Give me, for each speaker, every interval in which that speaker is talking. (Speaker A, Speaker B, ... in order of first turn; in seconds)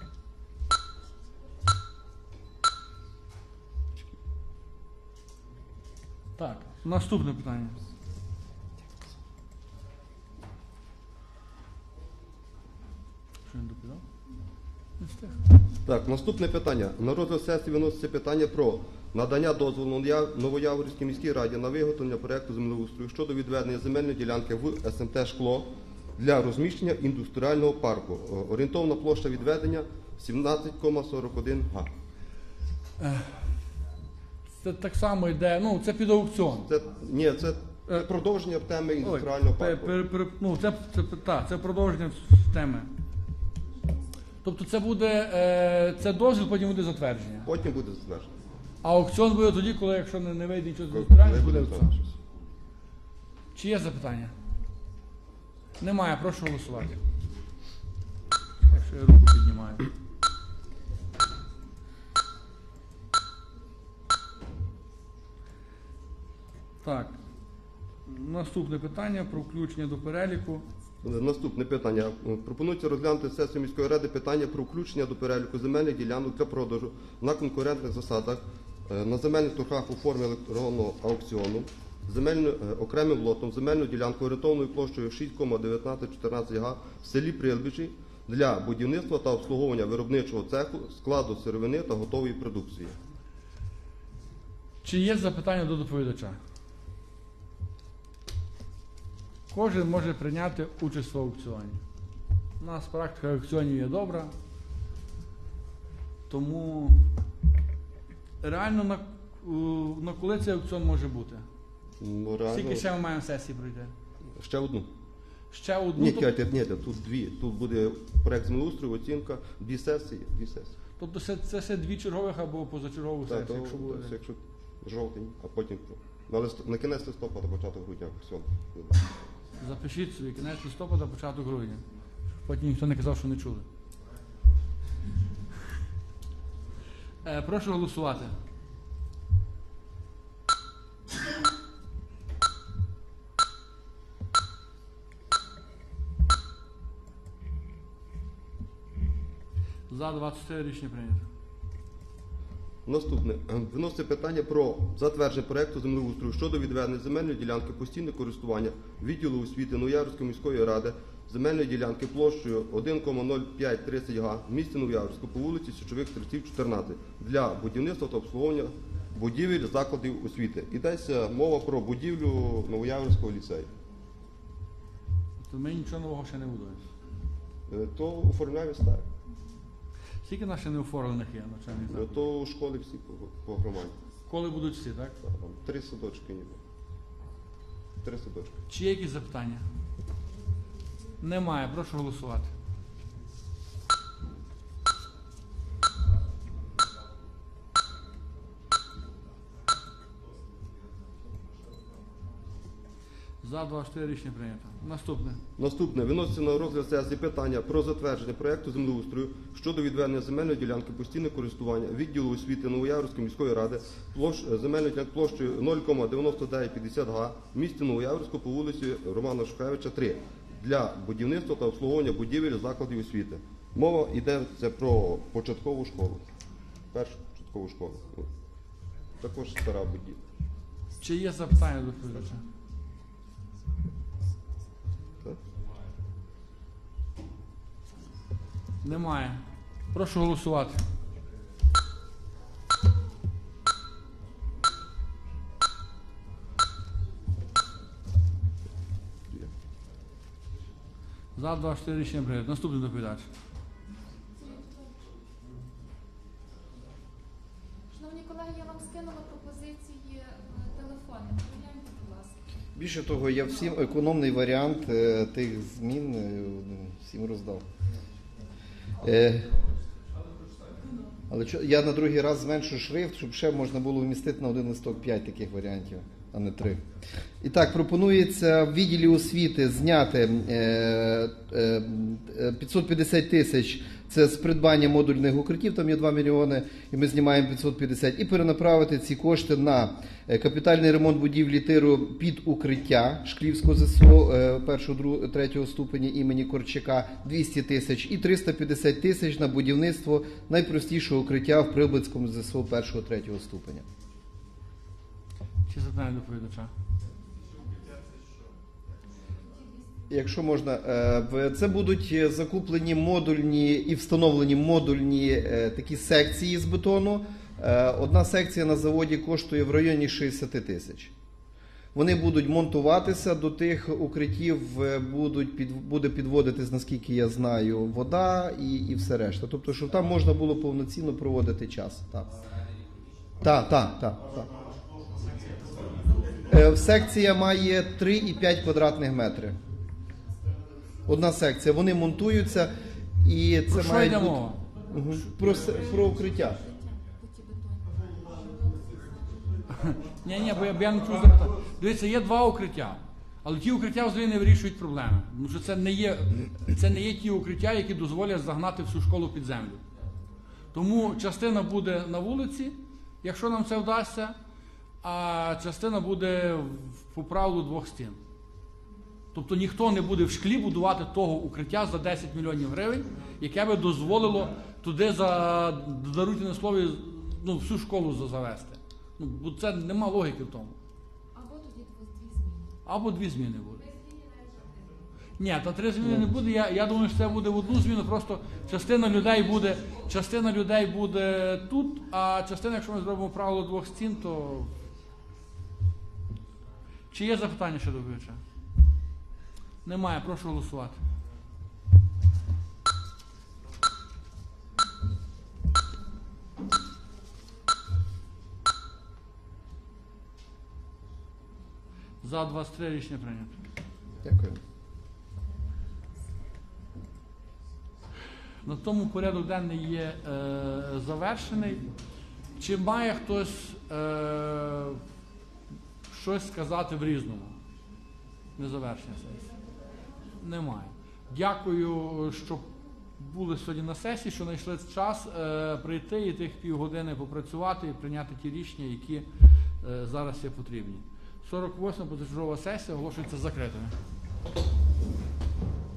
Speaker A: 6.4-7.8, 13.5-14.0, 15.0-15.4, 34.6-36.7, 39.0-42.9, 44.4-47.5, 48.8-51.9, 53.5-54.3, 55.8-57.0, 58.7-59.9, 66.8-67.2, 68.1-70.6, 94.8-96.4, 99.5-101.8, 102.6-104.3, 106.3-107.0, 108.4-111.5, 112.5-113.9, 115.5-116.3, 121.0-124.1, 129.6-131.8, 132.4-133.7, 137.2-138.3, 149.9-151.2, 175.4-176.8, 180.2-182.2, 184.3-185.2, 188.7-189.7, 191.2-192.5, 203.4-205.4, 231.0-232.4, 238.8-240.8, 251.4-253.3, 305.7-306.7, 343.7-344.6, 349.8-359.8, 360.7-364.4, 365.0-368.2, 369.3-380.8, 382.9-383.9, 385.4-394.7, 397.1-398.4, 399.8-401.0, 412.2-413.6, 418.6-421.8, 422.6-425.0, 426.1-427.6, 428.6-429.5, 430.4-439.3, 439.8-443.9
Speaker B: 15.8-31.9, 36.7-40.0, 47.5-48.3, 50.9-52.1, 71.0-93.0, 112.0-112.8, 114.4-114.9, 116.0-120.8, 123.3-129.1, 152.9-173.7, 177.7-179.1, 181.9-183.9, 185.2-186.6, 188.0-188.6, 205.6-226.2, 226.9-228.3, 229.2-230.2
Speaker C: 254.4-254.9, 257.9-262.4, 346.7-348.9, 381.3-382.7
Speaker D: 262.8-267.6, 269.0-269.5, 271.3-276.8, 277.4-303.9, 310.1-321.1, 321.9-332.3, 333.4-334.5, 336.5-339.6, 341.1-344.4, 344.9-346.6, 414.2-414.6